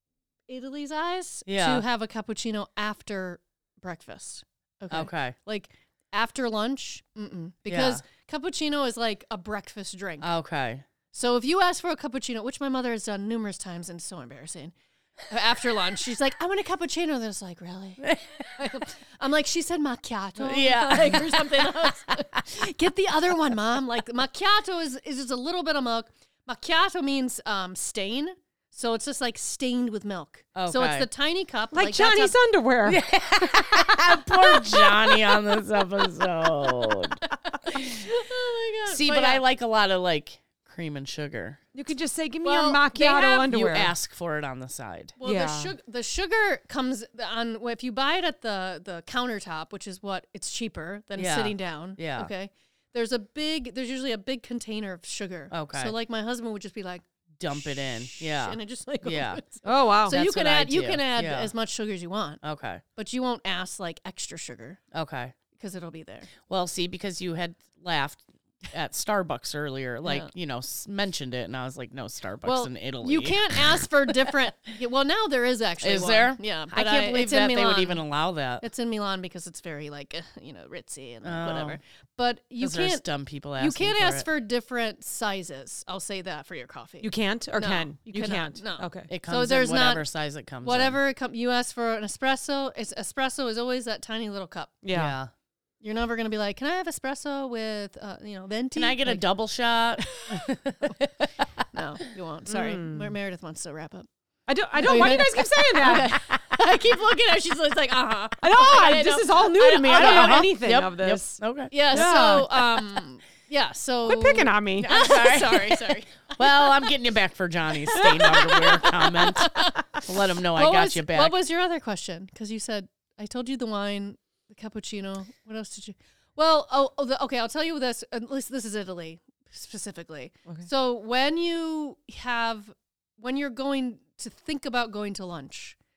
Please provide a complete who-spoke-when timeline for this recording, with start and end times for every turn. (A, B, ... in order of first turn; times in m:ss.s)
0:00.5-0:10.3 A
0:01.4-0:01.8 B
0:04.9-0:05.4 B
0:07.7-0:08.0 B
0:10.2-0:10.8 B
0:11.1-0:14.7 A
0:15.3-0:32.4 A
0:18.0-0:18.7 B
0:20.4-0:21.9 B
0:30.5-0:31.1 B
0:31.7-0:33.0 C
0:32.8-0:38.1 B
0:34.3-0:35.2 A
0:37.2-0:39.4 A
0:38.8-0:41.6 B
0:41.7-0:43.9 C
0:42.4-0:45.2 B
0:42.5-0:42.8 A
0:45.2-1:02.4 A
0:45.2-0:45.7 C
0:51.2-0:52.3 B
0:55.5-0:55.9 B
0:57.4-0:59.4 B
0:59.6-1:00.2 C
1:00.1-1:01.5 B
1:02.4-1:02.8 B
1:03.0-1:04.8 A
1:04.9-1:05.3 B
1:05.5-1:06.3 A
1:06.4-1:13.8 B
1:10.0-1:10.3 A
1:12.4-1:18.0 A
1:15.8-1:18.6 B
1:18.6-1:23.0 A
1:21.2-1:21.8 B
1:22.6-1:24.3 B
1:23.6-1:30.0 A
1:27.0-1:29.1 C
1:29.1-1:31.0 B
1:30.6-1:34.8 A
1:34.8-1:35.2 C
1:34.9-1:35.3 B
1:35.8-1:39.2 A
1:38.7-1:41.4 B
1:40.0-1:40.5 A
1:41.7-1:44.1 A
1:42.5-1:43.1 C
1:44.5-1:46.1 C
1:44.8-1:50.4 A
1:45.9-1:46.6 B
1:48.4-1:51.4 C
1:49.6-1:52.4 B
1:51.7-1:56.7 A
1:51.9-1:52.8 C
1:54.0-1:54.9 C
1:54.8-2:01.4 B
1:57.9-2:15.8 A